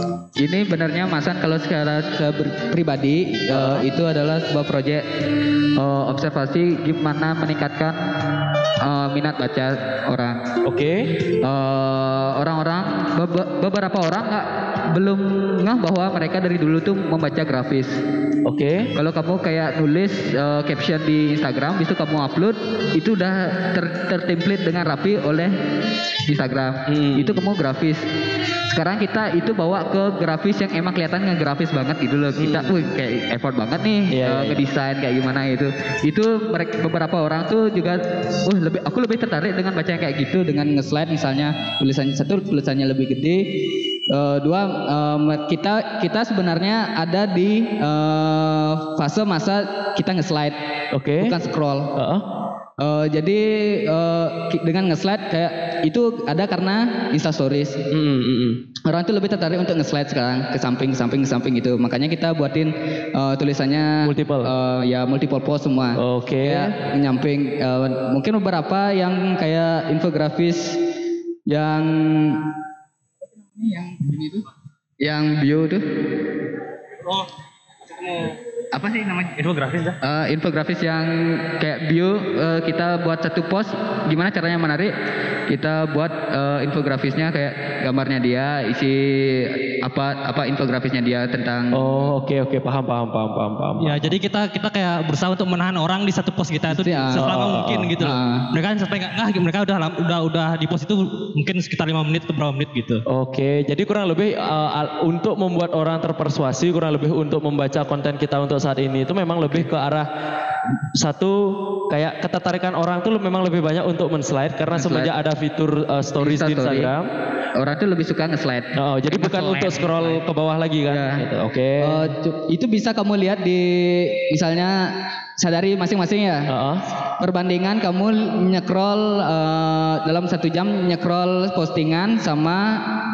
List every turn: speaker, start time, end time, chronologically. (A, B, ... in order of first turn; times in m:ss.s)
0:00.4-0:05.0 A
0:03.5-0:03.8 B
0:05.8-0:08.0 A
0:08.8-0:10.4 A
0:10.6-0:11.1 B
0:11.4-0:18.0 A
0:18.4-0:18.9 B
0:18.9-0:25.6 A
0:26.3-0:28.0 A
0:26.9-0:27.3 B
0:28.7-0:43.5 A
0:32.4-0:32.8 B
0:34.1-0:34.6 B
0:44.1-0:50.6 A
0:50.9-0:51.4 B
0:51.2-0:51.9 A
0:51.9-0:52.2 B
0:52.8-0:57.9 A
0:57.9-0:58.6 B
0:58.8-1:10.8 A
1:04.0-1:04.5 B
1:06.0-1:06.7 B
1:11.5-1:12.5 A
1:13.6-1:14.4 A
1:15.0-1:15.8 A
1:18.8-1:19.2 A
1:18.8-1:20.0 C
1:20.0-1:24.9 A
1:25.5-1:31.8 A
1:31.7-1:34.0 B
1:33.8-1:43.0 C
1:36.7-1:37.4 A
1:37.2-1:38.0 B
1:38.0-1:38.4 A
1:43.1-1:50.1 B
1:50.9-1:57.1 B
1:54.7-1:55.1 A
1:56.2-1:56.9 A
1:57.6-2:00.2 A
1:58.7-2:02.0 B
2:00.9-2:01.2 A
2:01.8-2:06.5 A
2:06.5-2:06.8 B
2:07.2-2:12.8 A